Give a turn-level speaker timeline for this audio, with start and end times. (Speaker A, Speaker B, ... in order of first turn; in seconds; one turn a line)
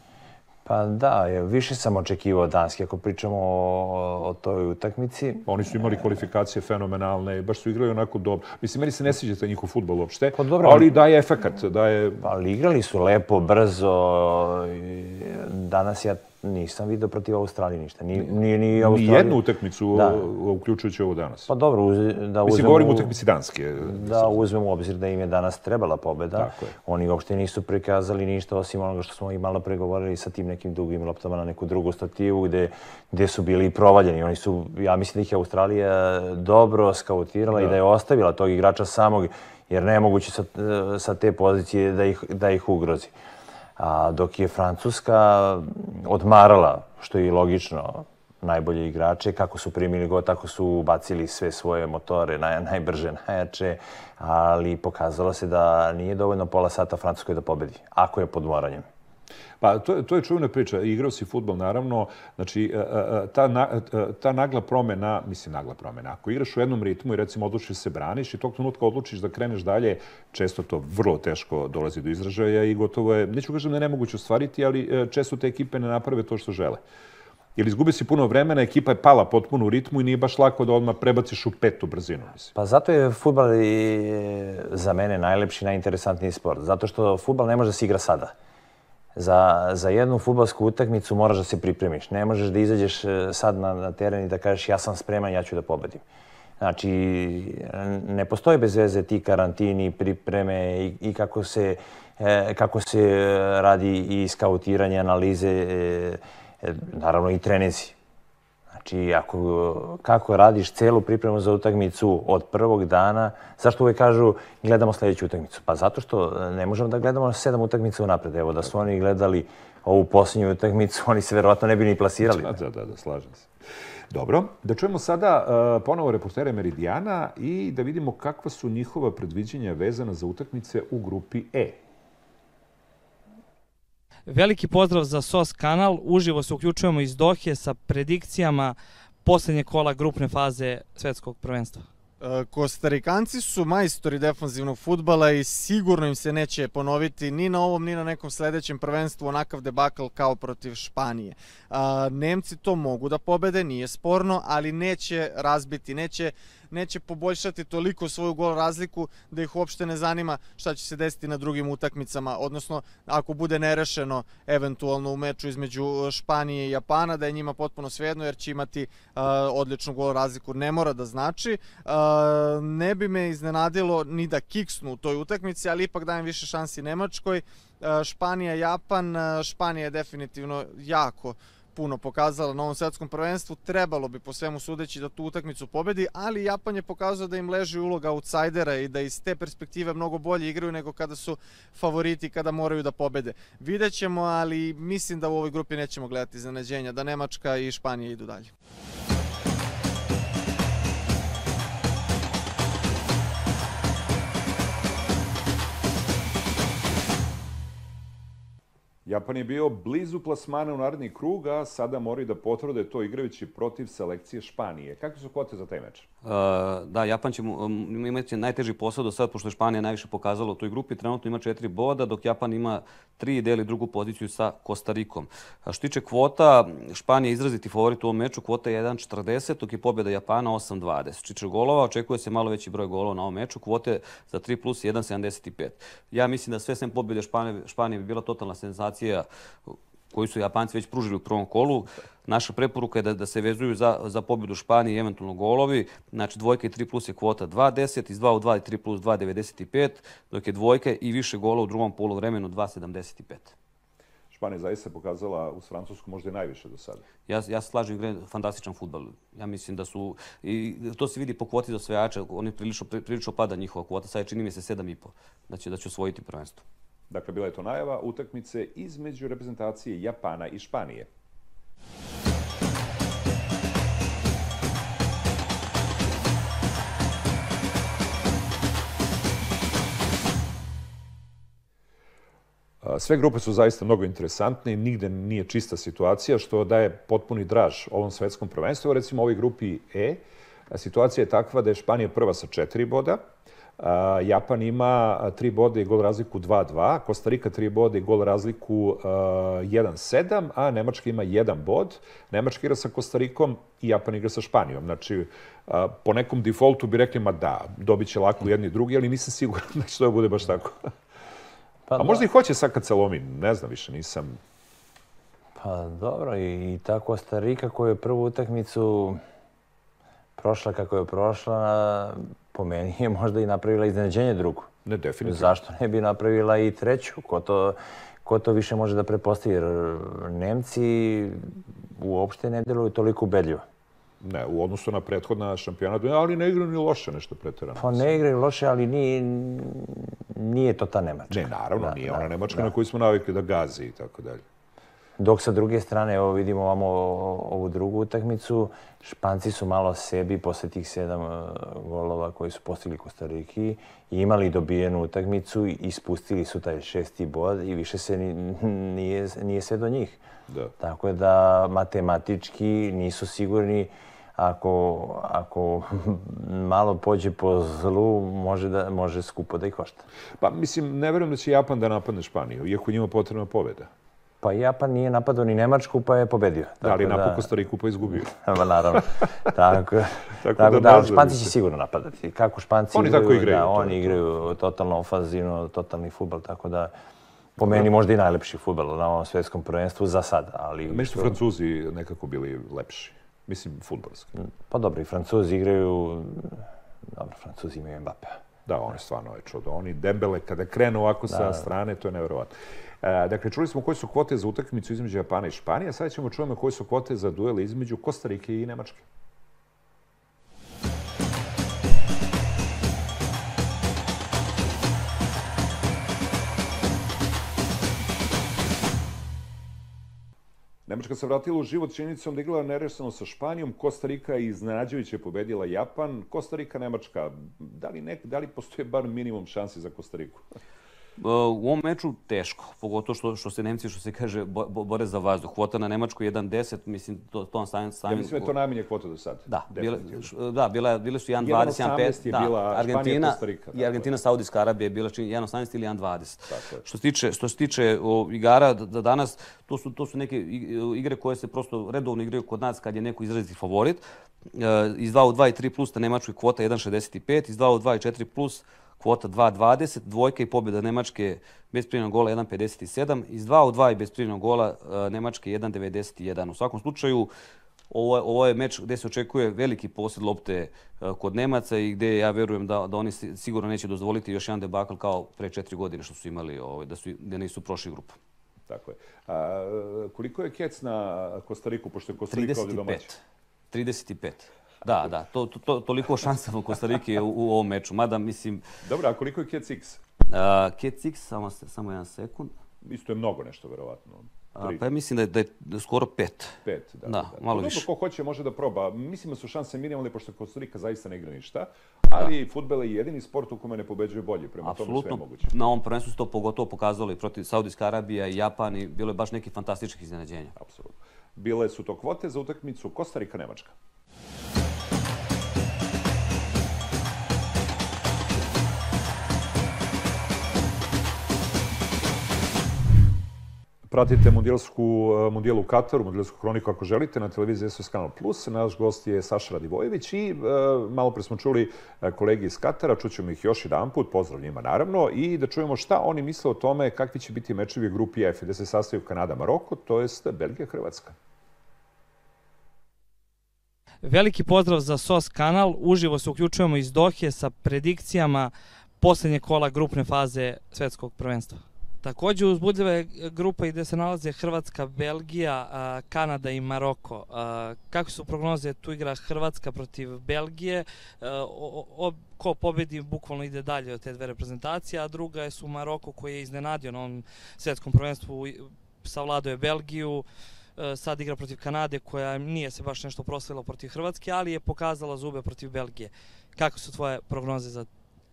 Speaker A: 0.7-6.2
Speaker B: 5.5-12.2
Speaker A: 10.3-10.9
Speaker A: 12.2-19.4
Speaker B: 18.1-21.5
Speaker A: 19.9-20.3
Speaker A: 21.5-23.1
Speaker B: 22.4-24.4
Speaker A: 23.8-43.1
Speaker B: 26.4-26.7
Speaker A: 43.8-58.9
Speaker B: 59.6-76.8
Speaker B: 77.5-82.5
Speaker A: 82.5-88.3
Speaker A: 89.2-96.0
Speaker A: 96.6-108.0
Speaker A: 108.7-122.6
Speaker B: 122.2-123.5
Speaker B: 124.1-131.8
Speaker C: 134.3-141.8
Speaker D: 142.2-198.5
Speaker B: 209.0-216.1
Speaker E: 216.2-253.6
Speaker B: 254.3-257.0
Speaker E: 257.3-266.6
Speaker B: 267.1-271.1
Speaker B: 282.8-293.2
Speaker B: 293.8-310.9
Speaker A: 311.9-312.2
Speaker B: 312.0-314.4
Speaker A: 315.6-319.2
Speaker A: 320.4-324.7
Speaker B: 324.8-325.5
Speaker A: 325.2-333.6
Speaker B: 334.2-338.1
Speaker A: 337.8-342.7
Speaker B: 341.3-344.4
Speaker A: 345.2-360.2
Speaker A: 360.8-370.1
Speaker B: 370.4-373.9
Speaker A: 374.4-377.5
Speaker B: 376.8-378.3
Speaker A: 378.1-386.9
Speaker B: 380.4-381.5
Speaker B: 382.9-384.4
Speaker A: 387.6-391.4
Speaker B: 390.9-394.3
Speaker A: 394.7-398.4
Speaker B: 398.6-409.1
Speaker A: 401.3-401.6
Speaker B: 420.9-430.4
Speaker E: 431.2-438.5
Speaker B: 438.1-440.3
Speaker E: 439.5-454.0
Speaker B: 441.4-444.1
Speaker B: 446.5-446.8
Speaker E: 454.5-467.3
Speaker E: 467.9-478.2
Speaker B: 478.7-483.1
Speaker E: 482.3-483.2
Speaker E: 483.7-488.6
Speaker B: 488.8-490.0
Speaker E: 490.3-492.6
Speaker B: 492.8-494.9
Speaker E: 494.6-497.9
Speaker B: 496.6-505.5
Speaker E: 504.6-510.6
Speaker B: 510.6-513.7
Speaker B: 523.9-541.1
Speaker C: 544.0-570.2
Speaker C: 570.8-577.9